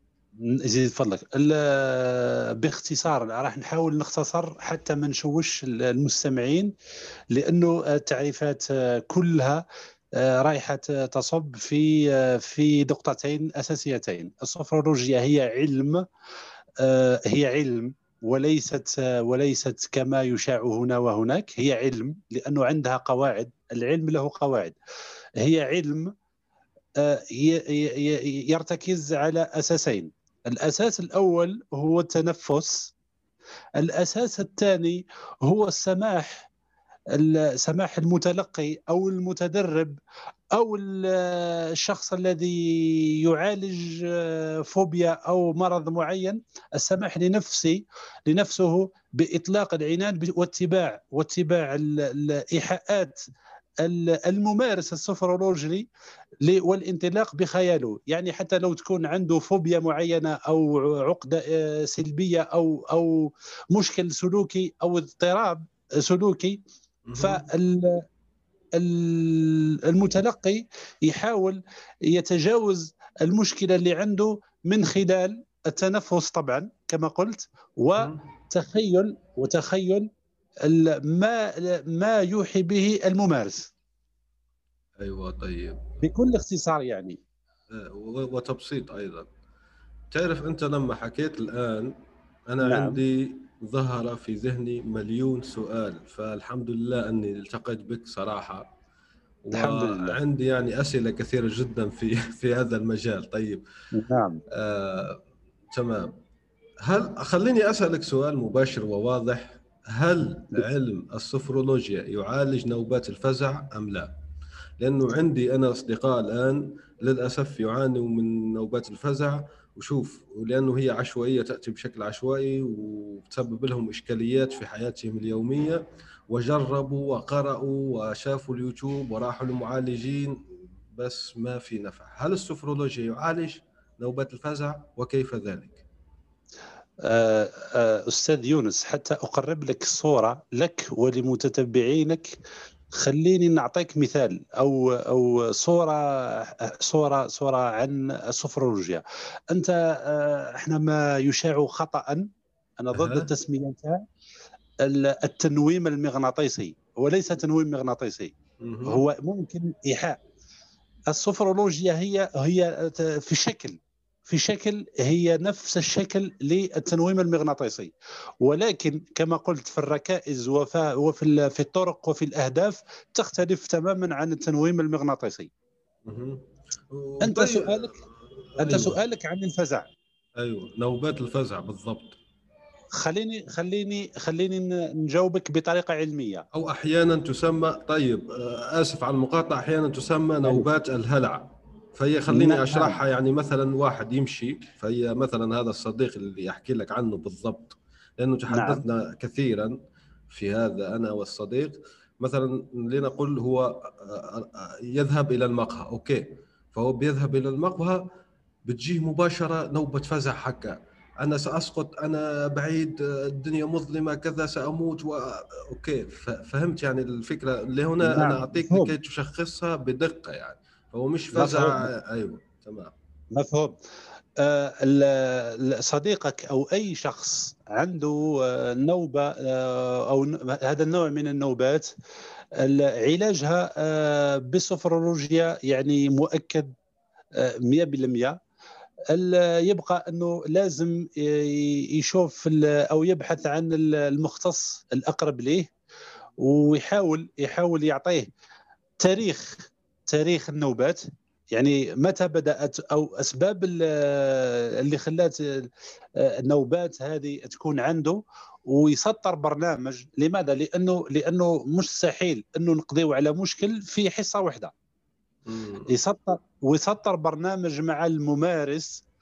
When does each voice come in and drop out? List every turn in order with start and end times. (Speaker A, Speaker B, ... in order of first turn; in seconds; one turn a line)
Speaker A: 0.5-6.7
Speaker A: 7.3-9.6
Speaker A: 10.2-16.0
Speaker A: 16.8-24.7
Speaker A: 25.4-26.1
Speaker A: 27.0-32.9
Speaker A: 33.8-36.5
Speaker A: 37.1-40.0
Speaker A: 40.5-53.2
Speaker A: 53.8-55.9
Speaker A: 56.4-66.6
Speaker B: 67.1-67.4
Speaker A: 67.2-68.0
Speaker A: 68.8-80.1
Speaker A: 80.6-83.7
Speaker B: 85.0-85.9
Speaker A: 86.0-87.2
Speaker B: 87.7-89.3
Speaker B: 90.1-91.9
Speaker B: 92.5-98.7
Speaker A: 92.6-93.0
Speaker B: 99.4-103.6
Speaker A: 99.5-100.2
Speaker A: 103.9-104.4
Speaker B: 104.5-105.2
Speaker B: 105.7-106.1
Speaker B: 106.8-114.1
Speaker B: 114.8-130.4
Speaker B: 130.9-135.8
Speaker A: 137.0-142.4
Speaker A: 142.9-152.3
Speaker A: 152.8-154.0
Speaker B: 152.9-153.3
Speaker A: 154.8-158.3
Speaker B: 158.6-159.1
Speaker A: 158.8-160.2
Speaker A: 161.1-175.5
Speaker B: 176.0-179.0
Speaker A: 177.2-177.9
Speaker A: 178.6-179.9
Speaker B: 180.4-182.2
Speaker A: 182.9-186.4
Speaker B: 186.5-199.8
Speaker A: 192.3-193.0
Speaker A: 198.5-198.8
Speaker B: 200.3-208.0
Speaker B: 208.7-222.9
Speaker A: 218.0-218.9
Speaker A: 221.3-221.9
Speaker A: 223.3-223.8
Speaker A: 224.4-231.9
Speaker A: 232.6-236.7
Speaker A: 237.4-238.4
Speaker A: 239.1-245.7
Speaker A: 246.4-248.3
Speaker A: 249.0-264.7
Speaker B: 265.5-265.9
Speaker A: 265.9-269.0